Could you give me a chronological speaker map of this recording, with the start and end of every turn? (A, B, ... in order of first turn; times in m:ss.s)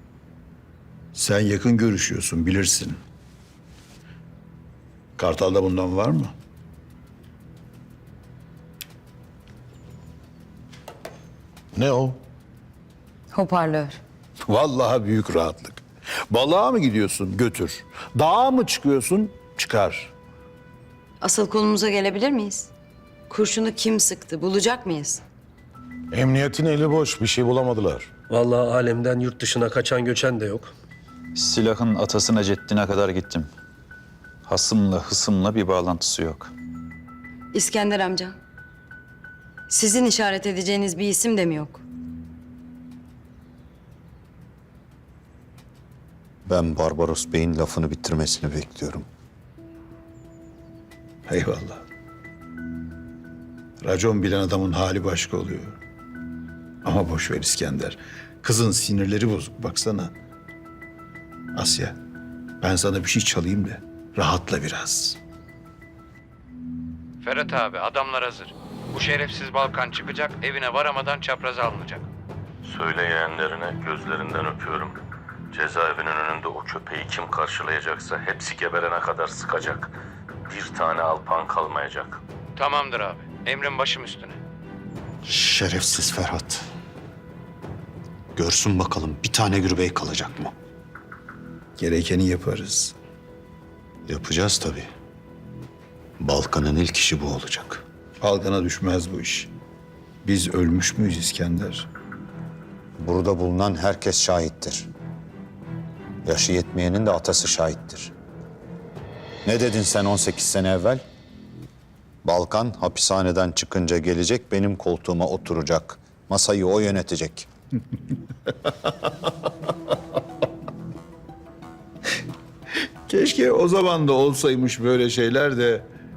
0:01.1-0:03.0 A
0:05.2-0:06.3 A
0:11.8-0:12.2 B
0:13.3-0:14.0 C
0:14.5-0:20.1 A
0:21.2-0:22.7 C
0:23.3-0:25.2 C
0:26.1-0:28.1 B
0:28.3-0:30.7 D
0:31.4-0:33.5 E
0:34.5-0:36.5 E
0:37.5-0:38.4 C
0:39.7-0:41.8 C
0:46.5-0:49.1 F
0:51.3-0:51.8 A
0:53.8-0:55.8 A
0:56.8-1:00.1 A
1:01.5-1:02.0 A
1:02.6-1:05.2 A
1:07.2-1:12.0 G
1:12.6-1:15.0 H
1:15.5-1:20.0 H
1:20.5-1:22.2 H
1:22.6-1:24.4 G
1:25.2-1:26.6 F
1:28.4-1:30.5 F
1:31.8-1:33.0 A
1:34.1-1:34.9 F
1:36.2-1:37.8 F
1:38.2-1:39.5 A
1:40.2-1:41.9 A
1:43.0-1:44.9 F
1:46.2-1:48.1 F
1:49.4-1:51.0 F
1:52.2-1:57.5 F
2:03.1-2:05.9 A